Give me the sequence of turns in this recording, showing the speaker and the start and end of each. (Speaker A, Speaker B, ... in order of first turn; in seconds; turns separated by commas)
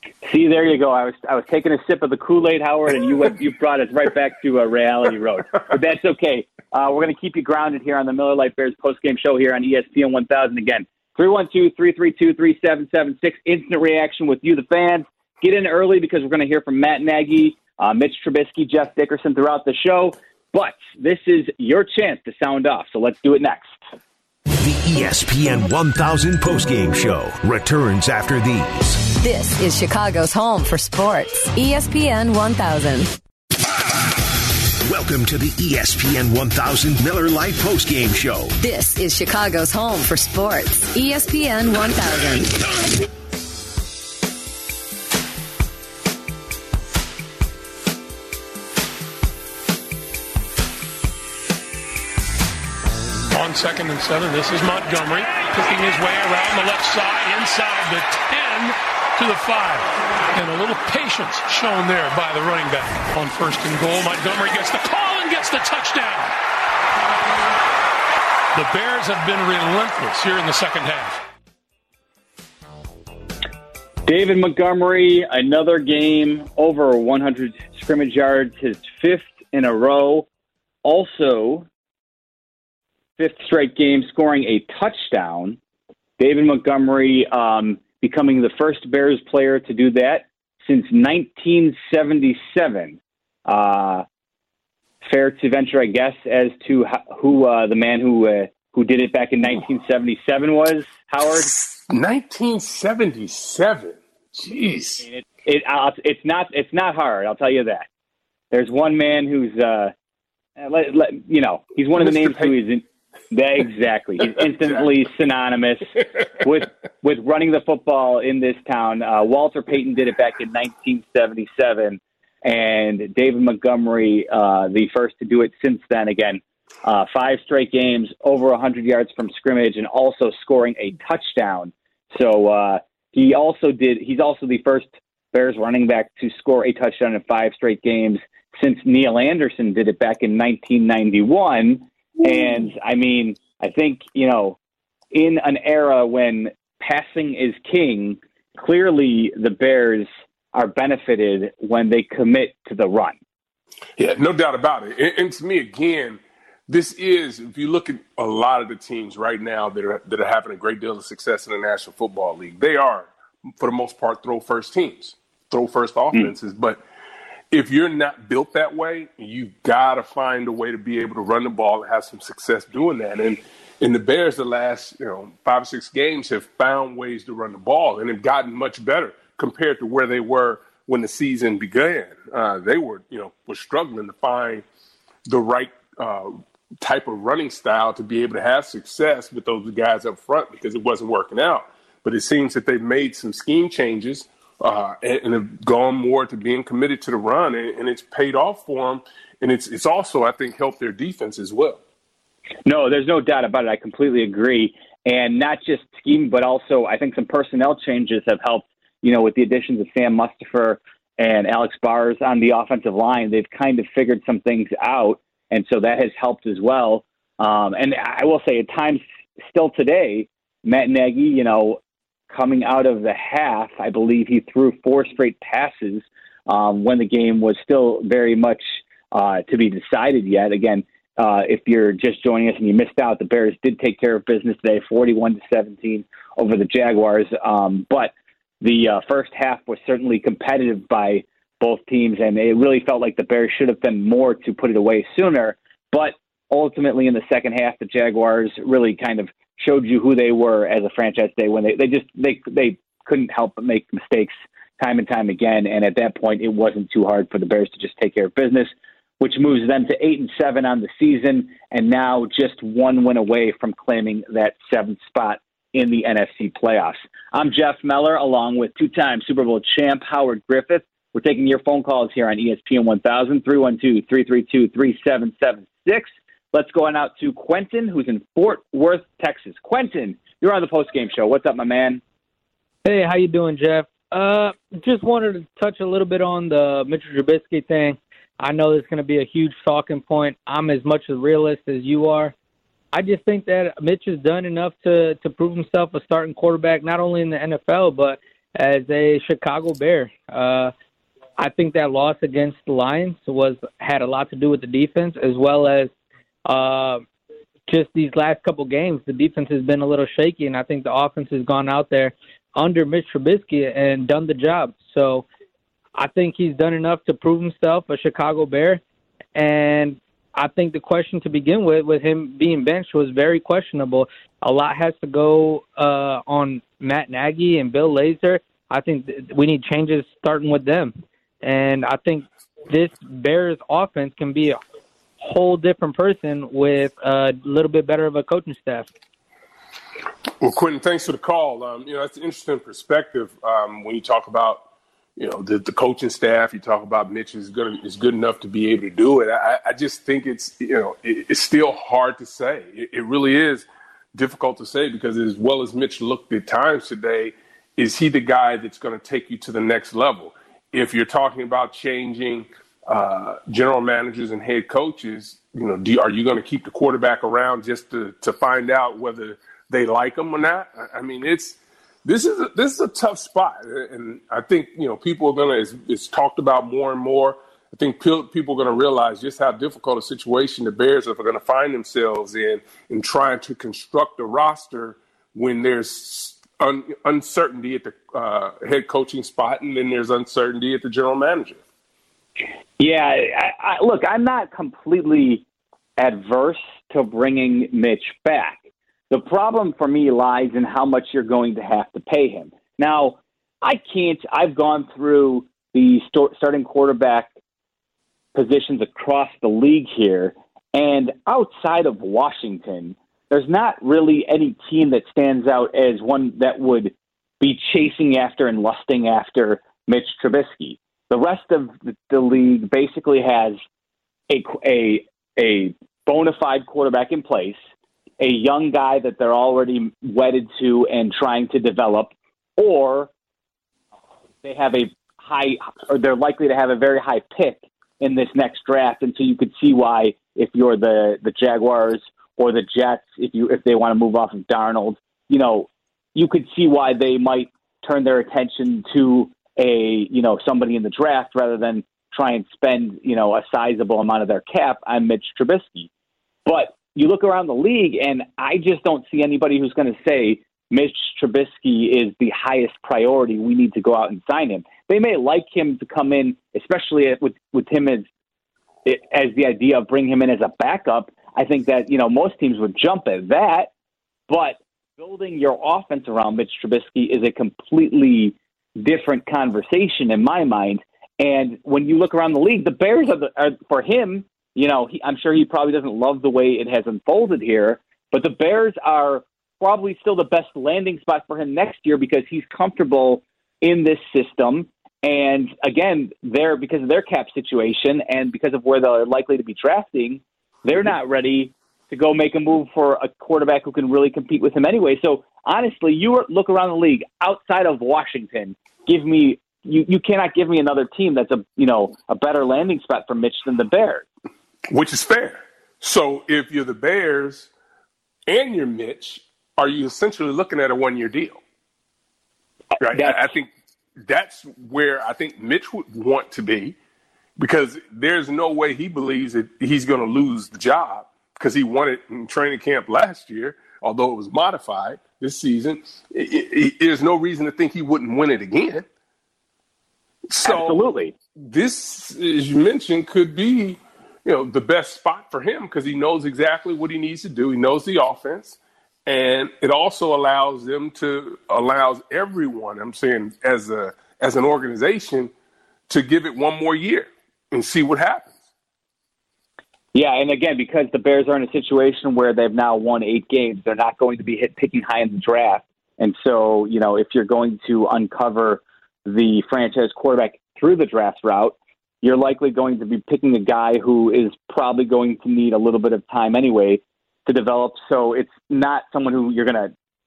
Speaker A: 0.2-23.8, Speaker B: 24.5-29.1, Speaker C: 29.1-33.1, Speaker B: 34.8-38.5, Speaker C: 38.6-42.6, Speaker D: 53.3-66.3, Speaker D: 68.5-71.2, Speaker A: 74.1-80.3, Speaker A: 80.8-81.7, Speaker A: 83.2-85.6, Speaker A: 86.2-94.0, Speaker A: 95.0-101.5, Speaker E: 101.5-105.0, Speaker A: 105.0-107.9, Speaker A: 108.5-109.9, Speaker A: 110.6-144.6, Speaker E: 112.0-112.5, Speaker A: 145.1-153.2, Speaker E: 154.0-166.8, Speaker E: 167.5-184.6, Speaker E: 185.2-201.8, Speaker A: 202.7-221.8, Speaker A: 222.3-282.0, Speaker F: 282.8-292.3, Speaker F: 292.9-300.7, Speaker F: 301.4-305.9, Speaker F: 306.4-307.0, Speaker F: 307.7-315.3, Speaker F: 315.9-318.8, Speaker F: 319.3-334.6, Speaker F: 335.2-338.9, Speaker E: 340.4-344.6, Speaker E: 345.2-391.6, Speaker A: 392.8-395.4, Speaker A: 396.0-398.6, Speaker A: 399.1-407.3, Speaker A: 408.3-423.6, Speaker A: 424.3-427.6, Speaker A: 428.2-433.1, Speaker A: 434.4-455.9, Speaker A: 456.4-468.1, Speaker A: 468.9-473.7, Speaker A: 474.3-514.0, Speaker E: 514.7-517.5, Speaker E: 518.3-521.4, Speaker E: 522.8-523.5, Speaker A: 522.9-523.2, Speaker E: 524.0-526.8, Speaker E: 527.4-538.8, Speaker E: 540.3-540.8, Speaker A: 540.4-541.1, Speaker E: 541.4-555.3, Speaker E: 555.9-558.4, Speaker A: 559.9-579.7